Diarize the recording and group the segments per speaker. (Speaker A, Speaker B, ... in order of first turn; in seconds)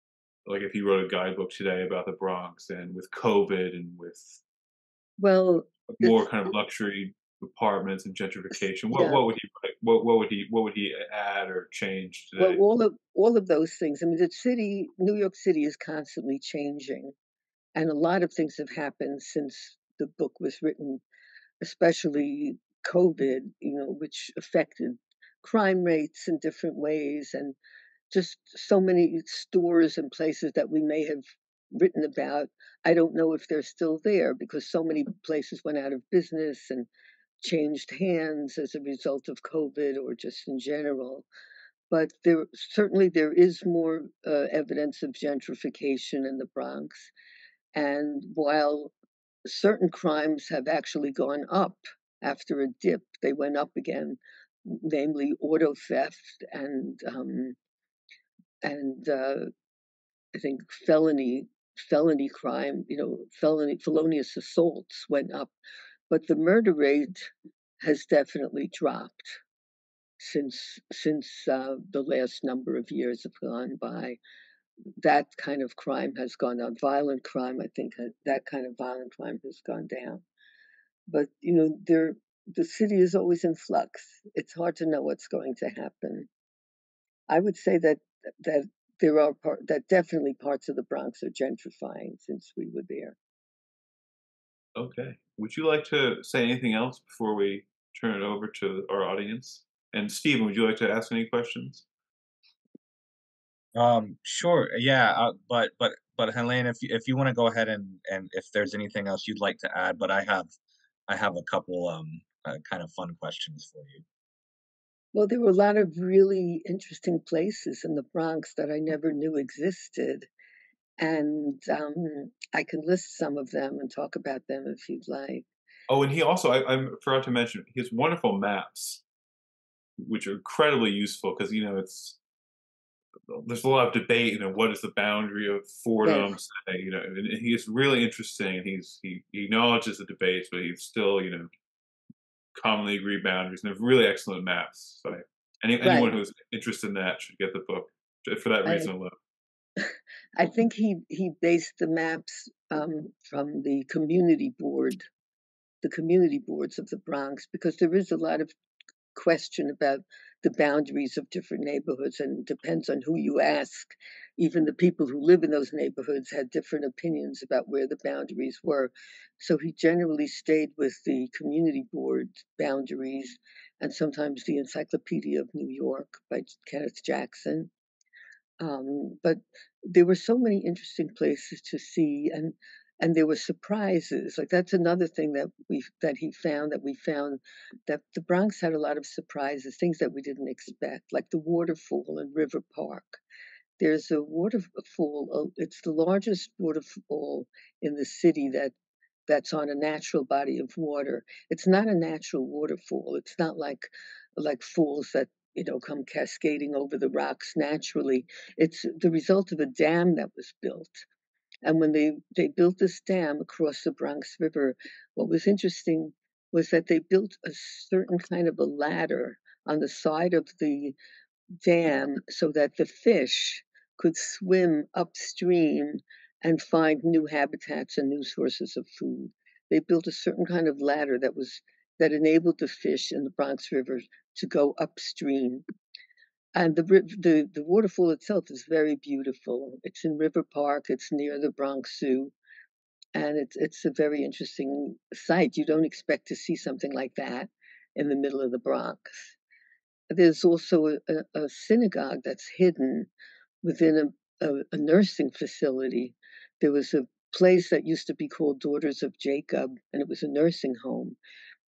Speaker A: 0.5-4.4, 5.9-12.6, 94.8-101.8, 125.9-129.0, 130.0-132.2, 133.3-141.5, 142.6-149.1
Speaker B: 5.2-6.2, 8.9-9.2, 12.4-17.1, 17.8-21.0, 21.6-27.6, 28.1-36.9, 37.4-41.3, 41.9-47.1, 47.8-48.9, 49.5-57.6, 58.6-59.5, 60.4-65.5, 66.1-69.4, 70.2-74.2, 75.0-80.2, 81.1-86.3, 87.3-93.2, 115.1-120.3, 121.0-125.5, 136.1-136.3, 145.8-146.1, 148.7-148.9, 150.4-155.1, 155.8-158.5, 159.2-177.7, 178.6-193.2, 193.8-198.7, 199.3-211.1, 211.6-221.0, 221.6-235.6, 236.6-242.3, 243.2-249.4, 250.1-253.1, 253.6-261.2
Speaker C: 103.8-110.5, 111.1-114.0